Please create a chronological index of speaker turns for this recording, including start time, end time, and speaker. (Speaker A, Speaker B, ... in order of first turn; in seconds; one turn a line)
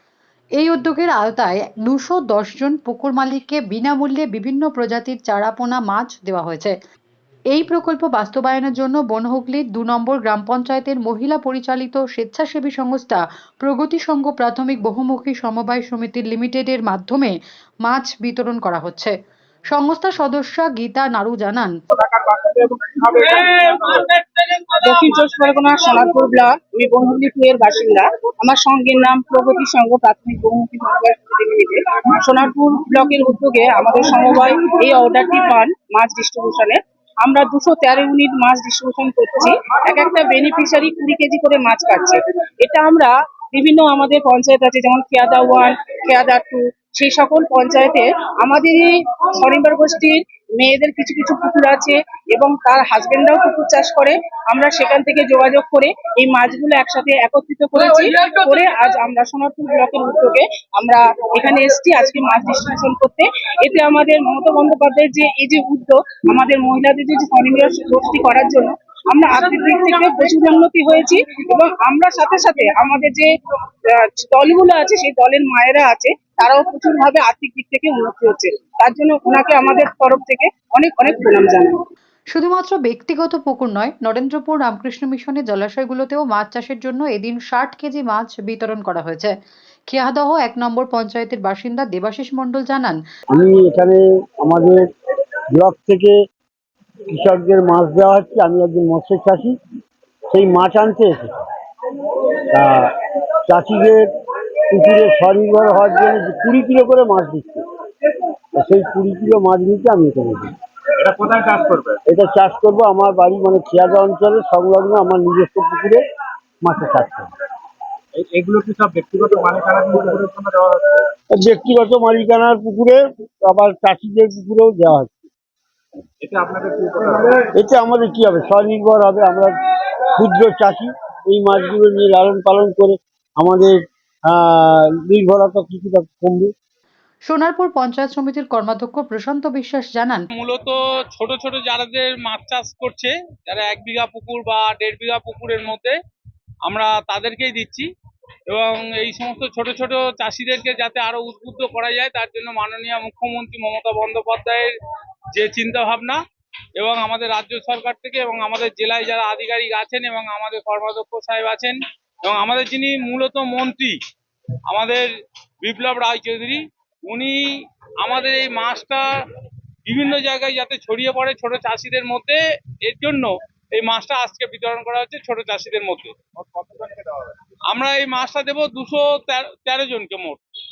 Speaker A: 0.6-6.7
Speaker A: 7.5-17.3
Speaker A: 17.9-19.1
Speaker A: 19.7-21.7
Speaker B: 22.4-23.8
Speaker B: 24.7-73.3
Speaker B: 73.9-81.7
Speaker A: 82.3-89.3
Speaker A: 89.9-93.0
Speaker C: 93.3-94.8
Speaker C: 95.5-96.1
Speaker C: 97.1-99.5
Speaker C: 100.3-101.3
Speaker C: 102.5-102.9
Speaker C: 103.5-104.0
Speaker C: 104.7-107.6
Speaker C: 108.6-110.5
Speaker D: 111.0-112.0
Speaker C: 112.1-116.0
Speaker C: 116.6-117.3
Speaker D: 118.1-121.0
Speaker C: 121.3-125.2
Speaker D: 126.2-127.4
Speaker C: 127.5-129.5
Speaker C: 130.2-133.8
Speaker C: 134.3-136.5
Speaker A: 137.3-140.2
Speaker E: 140.3-146.0
Speaker E: 146.6-147.9
Speaker E: 148.5-154.7
Speaker E: 155.3-156.2
Speaker E: 156.8-163.9
Speaker E: 164.7-165.1
Speaker E: 165.6-167.4
Speaker E: 168.0-169.1
Speaker E: 169.8-176.1
Speaker D: 176.4-177.3
Speaker E: 177.7-180.4